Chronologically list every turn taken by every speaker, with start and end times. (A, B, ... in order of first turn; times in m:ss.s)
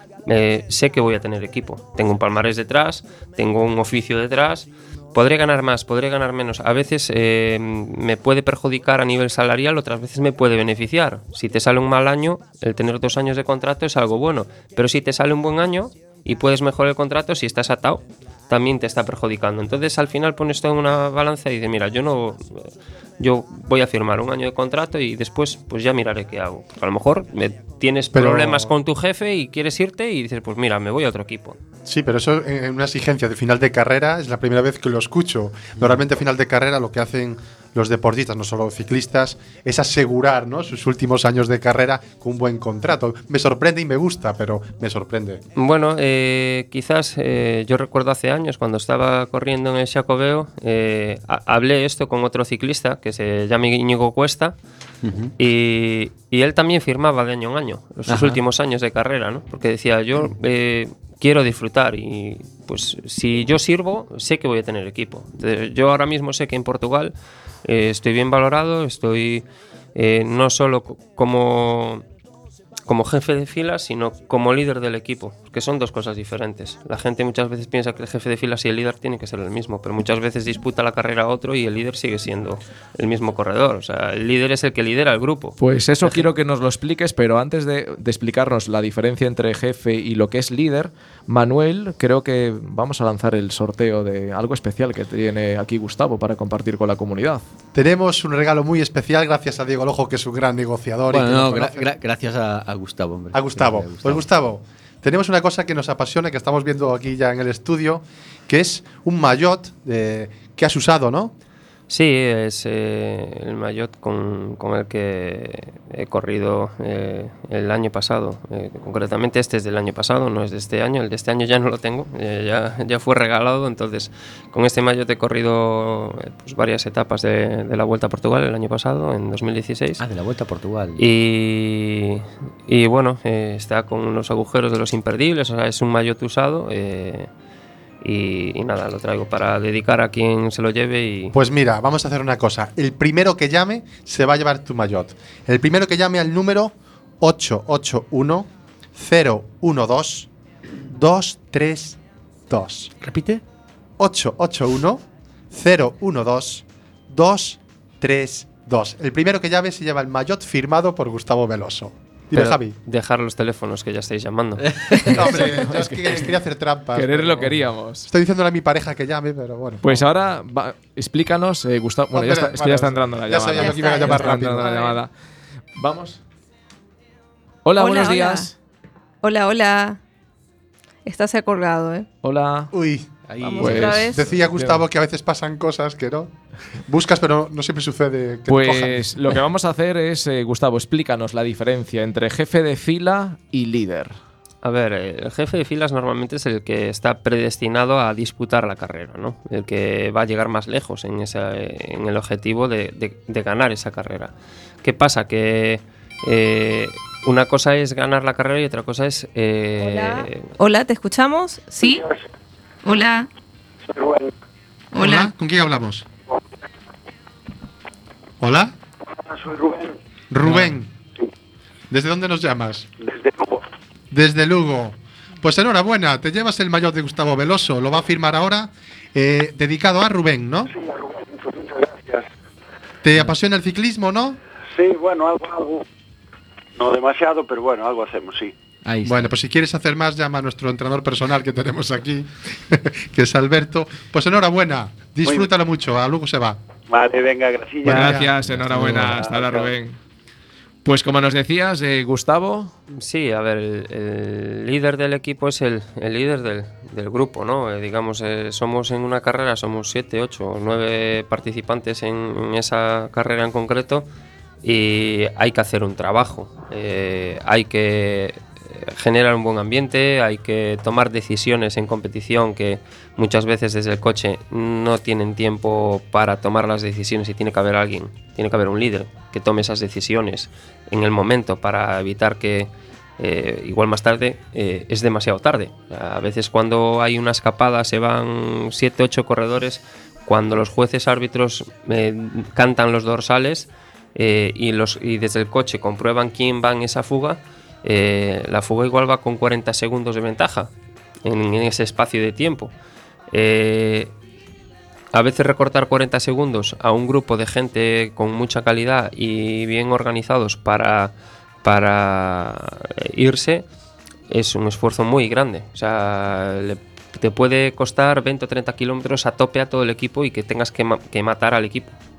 0:00.3-0:31.6 A
0:28.1-0:28.7 B
0:31.8-0:45.4 B
0:45.6-0:54.6 A
0:55.0-0:55.3 C
0:55.4-1:07.1 A
0:58.1-0:58.4 C
1:07.6-1:12.0 A
1:12.9-1:26.2 A
1:25.6-1:37.4 D
1:37.7-1:41.9 B
1:41.1-1:44.2 C
1:43.3-1:51.3 B
1:51.9-2:10.0 A
2:10.0-2:11.0 C
2:11.0-2:17.3 A
2:18.0-2:21.3 A
2:21.3-2:30.3 B
2:30.8-2:32.9 B
2:33.0-2:33.4 C
2:34.0-2:42.8 B
2:42.3-2:45.4 A
2:44.6-2:45.0 C
2:45.1-2:47.5 B
2:45.3-2:46.3 D
2:46.9-2:48.1 D
2:48.1-2:50.0 B
2:49.8-2:55.1 D
2:52.1-2:54.7 B
2:53.5-2:55.0 E
2:55.8-2:56.2 D
2:57.6-2:58.5 D
2:57.8-2:58.5 E
2:59.2-3:00.0 E
3:01.0-3:02.1 E
3:02.2-3:02.7 D
3:02.7-3:03.1 B
3:03.3-3:04.1 C
3:03.4-3:04.3 E
3:03.6-3:04.8 D
3:03.9-3:09.1 B
3:08.5-3:14.2 D
3:14.6-3:24.3 A
3:24.8-3:30.5 A
3:29.8-3:32.1 E
3:32.8-3:33.3 E
3:33.8-3:34.3 F
3:34.9-3:35.3 E
3:34.9-3:36.0 B
3:38.4-3:38.7 B
3:39.1-3:40.0 F
3:40.3-3:40.9 B
3:41.9-3:42.9 B
3:43.0-3:43.6 F
3:44.1-3:50.7 B
3:50.7-3:52.2 F
3:53.0-3:54.4 B
3:54.7-3:55.8 F
3:56.8-3:58.5 F
3:58.8-3:59.3 C
3:59.0-4:06.6 B
4:06.9-4:08.3 F
4:07.8-4:08.3 B
4:07.8-4:10.0 D
4:08.4-4:09.2 C
4:09.0-4:09.7 F
4:10.8-4:12.7 D
4:12.9-4:24.1 A
4:24.6-5:00.7 A
5:01.2-5:02.7 A
5:03.3-5:04.1 A
5:05.1-5:11.1 A
5:11.6-5:13.6 A
5:14.3-5:21.9 A